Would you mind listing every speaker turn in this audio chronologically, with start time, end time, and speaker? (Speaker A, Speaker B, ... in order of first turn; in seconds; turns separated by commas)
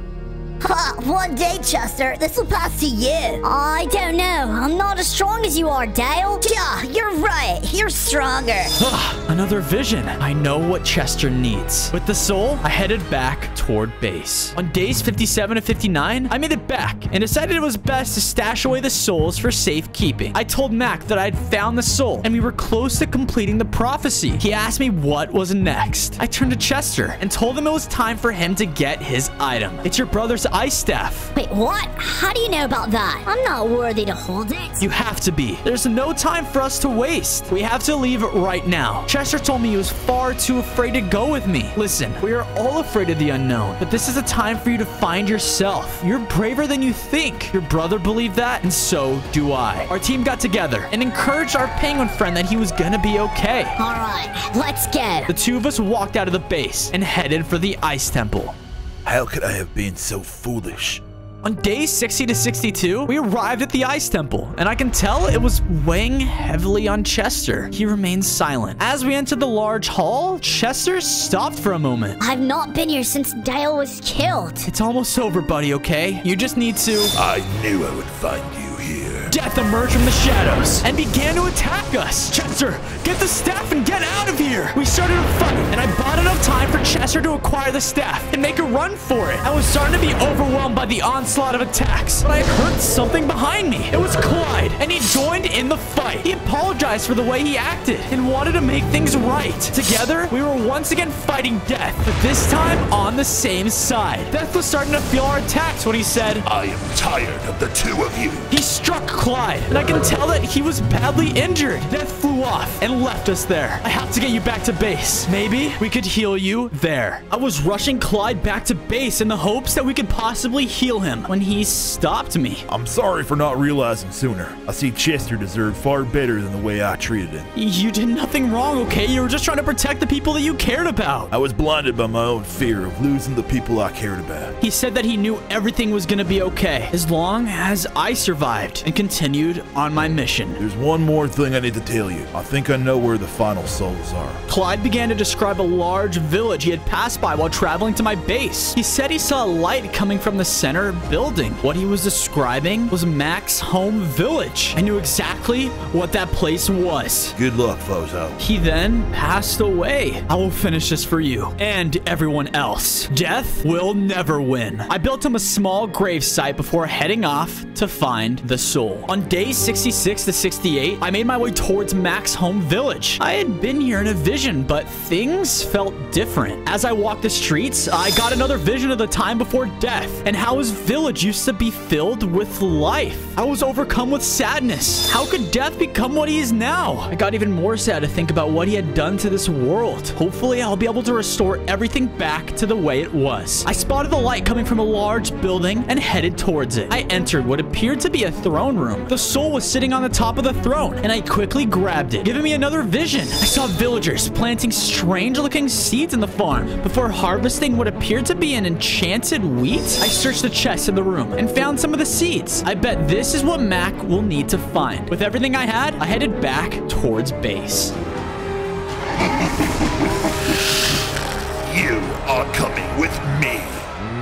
Speaker A: 0.6-8.7, Speaker B: 8.8-31.3, Speaker A: 31.4-34.8, Speaker B: 34.8-53.8, Speaker A: 53.8-55.3, Speaker B: 55.3-58.5, Speaker C: 59.0-61.0, Speaker B: 61.4-72.2, Speaker A: 72.2-74.7, Speaker B: 74.6-77.1, Speaker D: 77.1-79.3, Speaker B: 79.3-106.4, Speaker D: 106.4-108.5, Speaker B: 108.5-122.6, Speaker C: 122.7-127.5, Speaker B: 127.5-131.3, Speaker C: 131.3-134.6, Speaker B: 134.6-140.6, Speaker C: 140.6-144.4, Speaker B: 144.5-157.3, Speaker C: 157.3-158.4, Speaker B: 158.4-217.9, Speaker D: 221.7-223.8